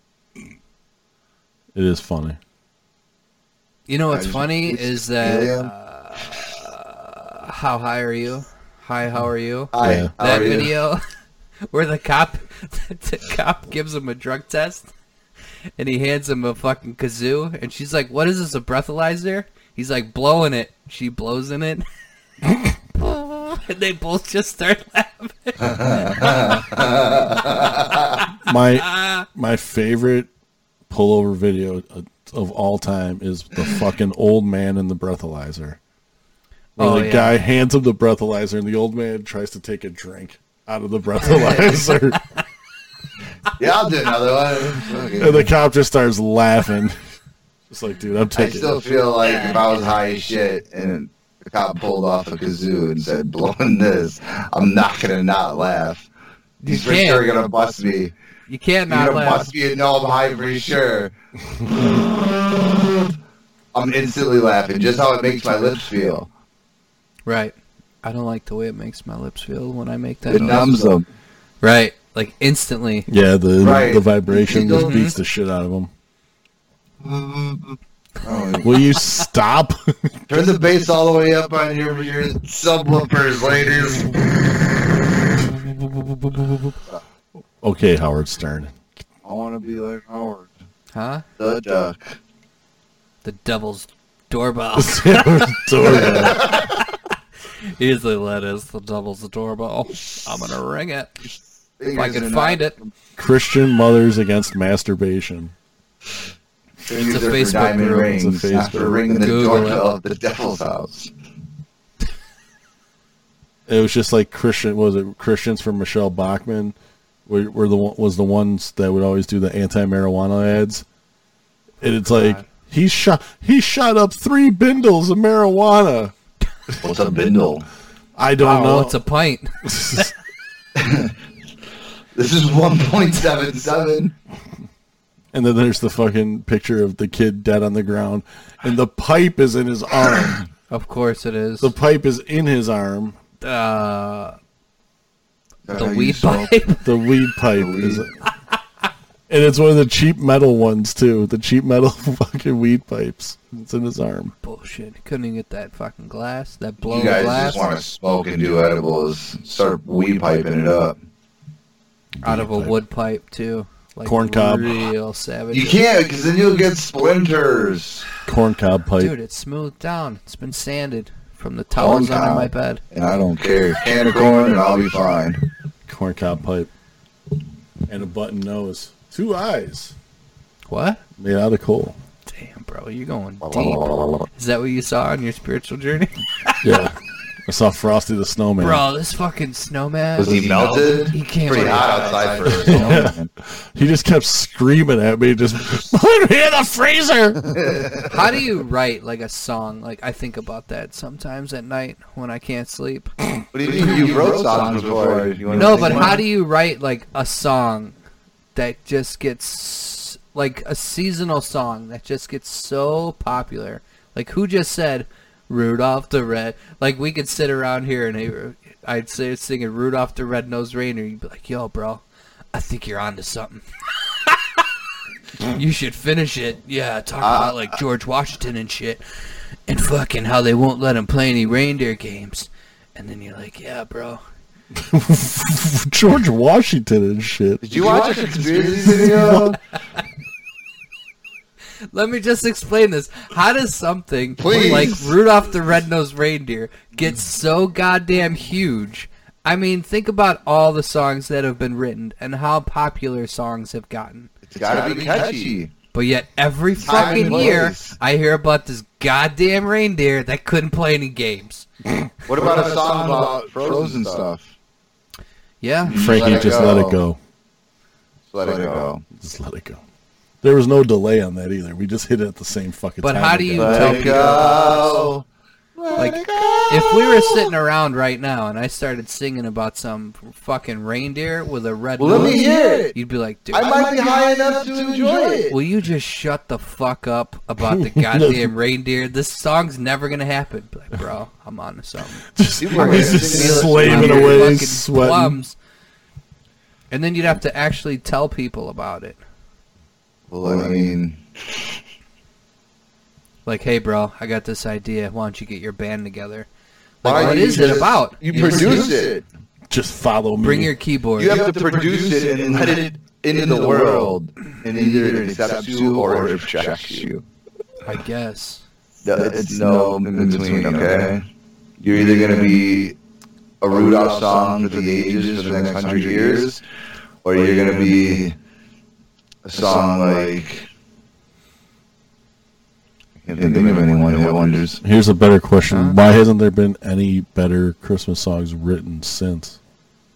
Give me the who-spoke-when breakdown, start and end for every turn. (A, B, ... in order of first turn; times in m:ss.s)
0:01.7-0:02.4 A
0:03.9-0:11.0 B
0:04.1-0:05.7 C
0:09.7-0:10.8 C
0:09.8-0:10.1 A
0:11.7-0:14.9 B
0:15.8-0:21.8 B
0:22.9-0:29.3 B
0:25.6-0:28.2 C
0:28.4-0:30.3 A
0:30.9-0:35.8 A
0:36.8-0:37.4 B
0:36.8-0:42.2 A
0:43.5-0:45.5 C
0:45.2-0:47.0 A
0:47.7-0:48.8 A
0:48.4-0:56.1 C
0:56.6-0:58.1 C
0:56.7-0:57.3 B
0:58.5-0:59.5 B
0:58.9-1:01.1 C
1:01.8-1:02.3 C
1:03.7-1:06.3 C
1:07.3-1:10.9 B
1:10.3-1:11.1 C
1:11.6-1:13.1 B
1:13.1-1:15.9 A
1:13.6-1:15.0 C
1:14.7-1:15.2 B
1:17.0-1:18.8 C
1:18.6-1:20.2 A
1:20.3-1:24.4 C
1:27.6-1:28.7 A
1:29.2-1:30.5 C
1:30.9-1:31.2 B
1:31.4-1:32.1 C
1:33.2-1:36.6 B
1:34.8-1:36.5 A
1:35.8-1:36.7 C
1:37.8-1:41.1 B
1:41.8-1:42.9 C
1:41.9-1:42.8 B
1:43.2-1:45.5 A
1:46.8-1:51.1 C
1:46.9-1:48.2 B
1:48.0-1:49.0 A
1:49.1-1:49.8 B
1:53.7-2:00.8 A
2:01.8-2:06.1 A
2:06.8-2:07.7 C
2:08.2-2:09.0 A
2:08.4-2:10.1 B
2:09.6-2:10.1 A
2:10.8-2:11.1 C
2:12.2-2:14.1 C
2:15.3-2:20.4 A
2:20.7-2:21.7 B
2:21.6-2:23.2 A
2:23.4-2:24.4 B
2:25.7-2:26.5 C
2:25.7-2:26.9 B
2:26.8-2:28.1 A
2:27.5-2:28.0 C
2:29.3-2:34.3 A
2:34.4-2:37.6 B
2:36.8-2:41.0 C
2:42.2-2:42.8 A
2:42.2-2:45.8 B
2:44.0-2:44.8 A
2:45.5-2:48.1 C
2:48.3-2:49.1 A
2:49.0-2:52.8 B
2:51.8-2:55.4 C
2:55.9-2:56.7 A
2:57.9-3:00.0 A
3:00.7-3:01.0 B
3:01.2-3:02.0 A
3:02.3-3:06.6 B
3:03.4-3:04.3 C
3:06.6-3:07.0 A
3:07.5-3:08.8 A
3:08.6-3:13.0 B
3:10.2-3:13.3 C
3:12.6-3:13.2 A
3:13.7-3:17.6 A
3:17.7-3:18.1 C
3:18.0-3:23.1 B
3:23.5-3:26.2 C
3:25.5-3:25.8 A
3:25.5-3:28.0 B
3:28.6-3:44.6 B
3:45.4-3:49.0 B
3:47.2-3:47.7 C
3:49.7-3:54.2 B
3:54.8-3:57.9 A
3:57.6-3:59.6 C
3:58.8-3:59.6 A
4:01.9-4:14.3 B
4:04.4-4:05.2 C
4:14.5-4:15.7 C
4:15.9-4:21.7 B
4:16.8-4:18.0 C
4:22.3-4:24.5 C
4:25.6-4:26.0 B
4:25.9-4:27.0 C
4:25.9-4:27.2 A
4:28.3-4:29.0 C
4:29.2-4:29.8 A
4:30.4-4:34.2 A
4:33.0-4:35.1 B
4:33.6-4:35.2 C
4:35.8-4:37.5 C
4:36.0-4:43.9 B
4:42.0-4:43.0 C
4:43.5-4:45.6 C
4:45.5-4:55.6 B
4:47.6-4:48.5 A
4:52.4-4:55.4 A
4:52.6-4:54.6 C
4:56.9-4:59.2 B
5:00.3-5:01.2 C
5:03.5-5:06.5 B
5:07.0-5:08.9 B
5:07.0-5:09.2 C
5:09.7-5:10.7 A
5:10.4-5:11.4 B
5:11.2-5:17.2 C
5:17.8-5:18.6 B
5:19.0-5:21.2 C
5:21.8-5:23.0 C
5:23.6-5:26.6 C
5:27.2-5:28.4 C
5:29.4-5:30.7 C
5:33.2-5:34.8 C
5:34.8-5:39.6 A
5:35.7-5:36.0 B